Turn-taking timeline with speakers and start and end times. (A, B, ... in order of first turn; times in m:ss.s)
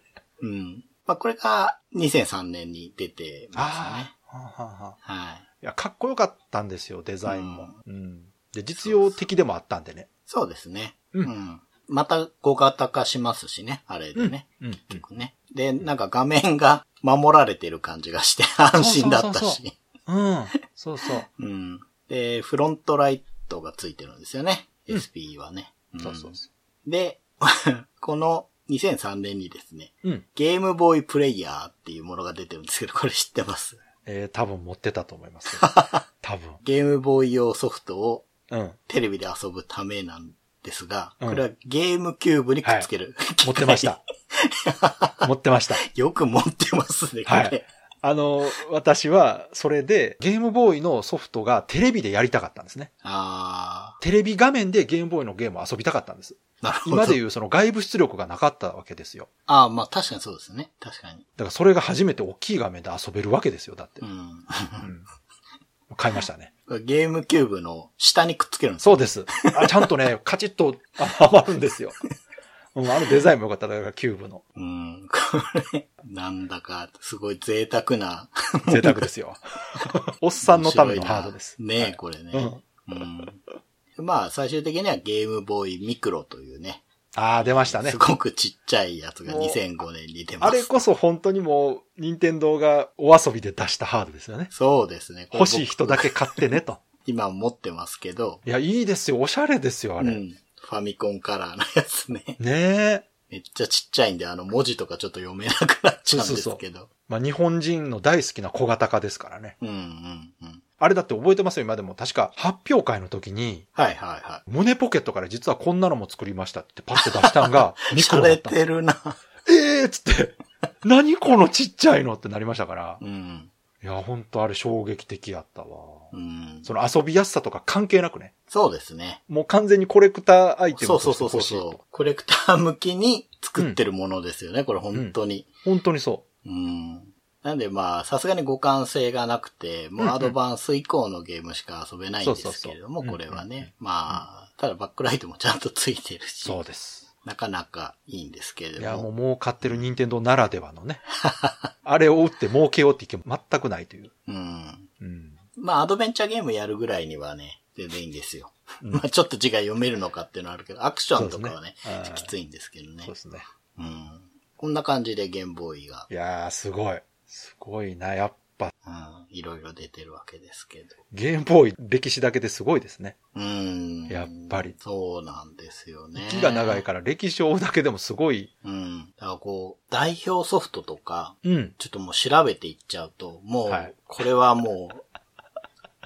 0:00.4-0:04.1 A
0:03.6-0:05.0 B
0:05.0-0:05.4 A
0:05.6-0:10.1 B
0:07.2-0:07.8 A
0:08.8-0:09.2 A
0:10.3-0:19.8 A
0:14.1-0:15.0 B
0:18.8-0:21.2 B
0:21.3-0:33.8 A
0:26.0-0:26.4 B
0:34.0-0:35.7 B
0:35.5-0:36.0 A
0:36.2-0:36.6 B
0:36.6-0:38.3 A
0:38.5-0:38.8 B
0:38.9-0:47.6 A
0:42.6-0:42.9 B
0:43.4-0:44.0 B
0:45.2-0:45.8 B
0:47.2-0:52.9 B
0:53.0-0:54.0 A
0:54.0-0:59.3 B
0:56.6-0:57.2 A
0:59.5-1:01.2 A
1:01.4-1:04.0 B
1:04.0-1:04.9 A
1:04.8-1:05.0 B
1:05.9-1:06.5 B
1:06.7-1:09.9 A
1:08.8-1:12.0 B
1:12.7-1:14.4 B
1:14.6-1:19.1 A
1:18.7-1:22.6 B
1:20.4-1:23.4 A
1:24.0-1:26.8 A
1:27.1-1:28.0 B
1:27.4-1:30.9 A
1:29.2-1:29.6 B
1:30.4-1:34.5 B
1:34.5-1:36.5 A
1:35.3-1:36.8 B
1:37.0-1:38.4 A
1:38.4-1:40.2 B
1:40.0-1:42.4 A
1:42.4-1:43.0 B
1:43.3-1:46.9 A
1:46.1-1:49.5 B
1:49.6-1:50.6 A
1:50.8-1:53.7 B
1:53.8-1:54.4 A
1:54.5-1:58.6 B
1:56.9-1:59.2 A
1:59.4-2:03.0 B
2:03.0-2:03.5 A
2:03.8-2:06.1 B
2:06.1-2:06.7 A
2:06.6-2:08.3 B
2:08.5-2:09.2 A
2:09.3-2:11.8 B
2:10.7-2:15.5 A
2:14.9-2:16.2 B
2:16.4-2:26.6 A
2:20.0-2:20.3 B
2:22.2-2:24.2 B
2:26.4-2:27.1 B
2:27.2-2:29.1 A
2:28.8-2:31.0 B
2:31.2-2:31.7 A
2:31.8-2:34.1 B
2:34.3-2:34.9 A
2:35.0-2:35.4 B
2:35.6-2:43.1 A
2:41.1-2:42.3 B
2:43.0-2:43.4 B
2:43.8-2:46.1 A
2:46.1-2:48.7 B
2:48.8-2:51.0 A
2:51.1-2:53.2 B
2:53.3-2:56.8 A
2:54.1-2:54.8 B
2:56.2-2:58.5 B
2:58.6-3:05.0 A
3:01.4-3:01.7 B
3:03.7-3:03.9 B